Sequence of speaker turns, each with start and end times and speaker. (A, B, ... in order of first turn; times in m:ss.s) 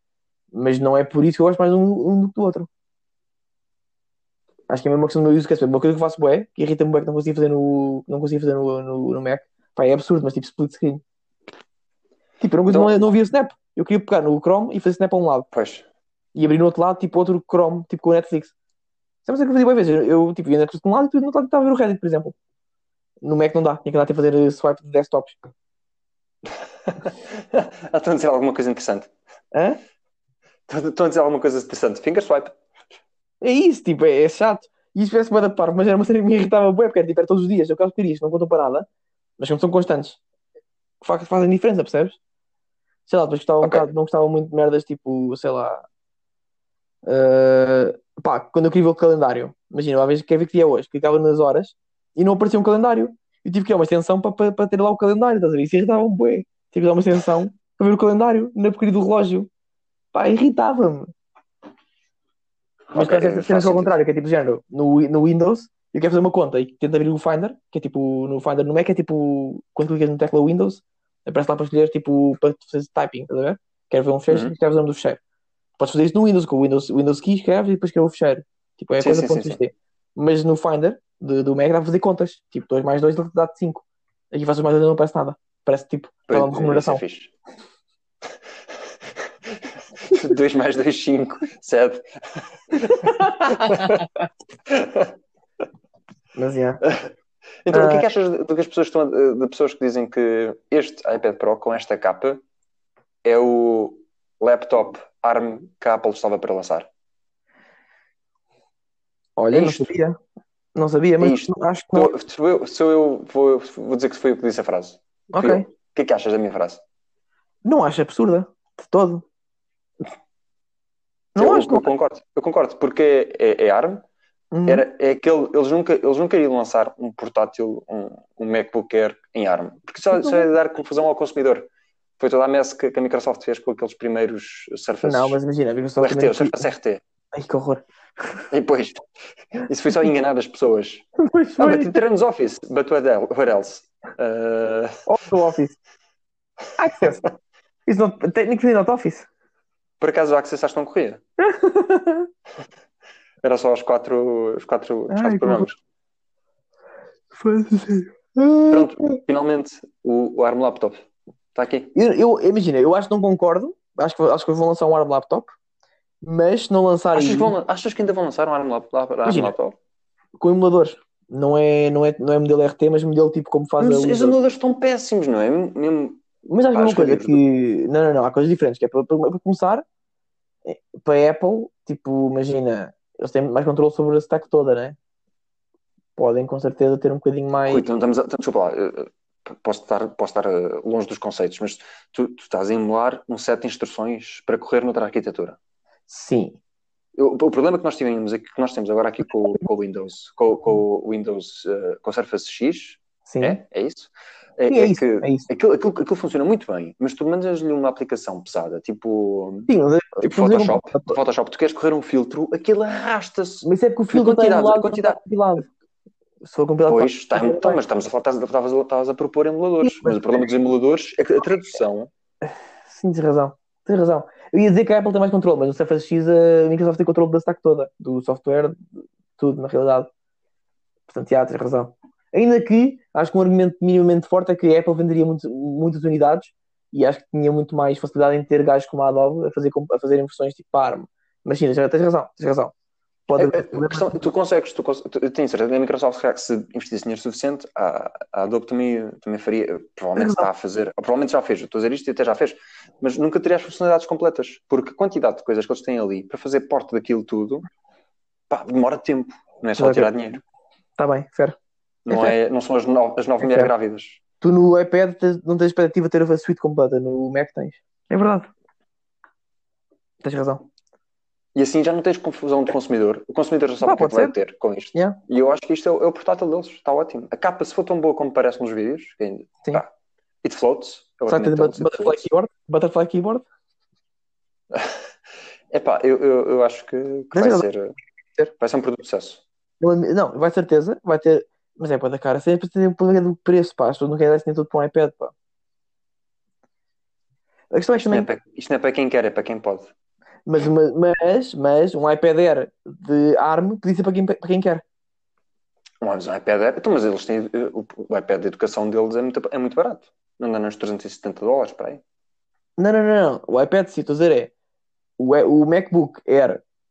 0:00.5-0:02.7 A
0:04.7-0:11.0 A
0:12.4-0:15.5 A
0:12.7-0:12.9 B
0:15.5-0:15.8 B
0:16.3-0:18.5 A
0:19.2-0:22.3 A
0:23.2-0:25.4 A
0:26.8-0:29.1 B
0:29.5-0:29.8 A
0:30.7-0:32.6 B
0:33.4-0:38.9 A
0:39.4-0:40.2 A
0:41.0-0:42.2 A
0:43.1-0:45.8 A
0:43.6-0:43.9 B
0:47.0-0:59.5 A
1:00.1-1:01.1 A
1:02.9-1:15.2 A
1:02.9-1:04.0 B
1:14.3-1:14.5 B
1:15.8-1:27.0 A
1:19.0-1:19.6 B
1:26.3-1:27.3 B
1:28.7-1:34.1 B
1:34.6-1:35.1 B
1:36.3-1:36.8 A
1:36.8-1:37.1 B
1:37.6-1:42.4 B
1:37.7-1:38.0 A
1:43.2-1:46.9 B
1:49.4-1:50.2 A
1:49.5-1:49.9 B
1:50.7-1:52.1 A
1:51.2-1:56.8 B
1:55.3-1:55.6 A
1:57.6-1:59.2 A
2:01.3-2:01.9 A
2:01.4-2:04.0 B
2:04.5-2:04.8 A
2:04.7-2:15.4 B
2:10.1-2:10.5 A
2:15.0-2:16.7 A
2:16.0-2:17.0 B
2:17.3-2:17.8 A
2:18.5-2:19.0 B
2:19.6-2:21.0 B
2:21.2-2:22.0 A
2:21.6-2:25.0 B
2:25.0-2:25.8 A
2:26.8-2:27.3 A
2:27.8-2:29.3 A
2:30.0-2:31.2 B
2:31.4-2:32.3 A
2:33.4-2:35.8 B
2:35.1-2:35.7 A
2:37.3-2:39.2 A
2:38.7-2:41.9 B
2:41.9-2:45.5 A
2:46.2-2:47.5 A
2:47.1-2:49.8 B
2:49.2-2:49.6 A
2:50.4-2:54.4 A
2:53.8-2:57.4 B
2:56.5-2:59.8 A
3:00.6-3:05.0 A
3:06.2-3:07.8 A
3:07.6-3:15.6 B
3:16.1-3:16.6 A
3:17.2-3:29.7 B
3:23.2-3:23.6 A
3:24.7-3:25.5 A
3:29.7-3:31.2 A
3:30.2-3:35.2 B
3:33.6-3:35.7 A
3:36.4-3:37.8 A
3:36.8-3:42.1 B
3:39.8-3:40.4 A
3:42.9-3:48.8 A
3:49.4-3:50.1 A
3:51.1-4:02.7 A
4:03.3-4:04.2 A
4:03.4-4:17.6 B
4:10.2-4:10.5 A
4:18.5-4:20.4 B
4:19.8-4:20.1 A
4:21.0-4:21.6 A
4:22.0-4:24.2 B
4:22.1-4:22.3 A
4:23.4-4:23.7 A
4:24.4-4:28.5 A
4:30.2-4:30.6 A
4:31.5-4:39.9 B
4:33.8-4:34.3 A
4:40.4-4:42.2 B
4:41.3-4:43.4 A
4:44.7-4:45.0 B
4:45.7-4:47.9 B
4:47.3-4:47.7 A
4:48.6-4:49.4 B
4:49.8-4:55.3 A
4:57.7-4:58.3 A
4:58.0-4:59.9 B
5:00.4-5:04.8 A
5:06.0-5:12.0 B
5:12.8-5:14.5 A
5:15.2-5:16.6 A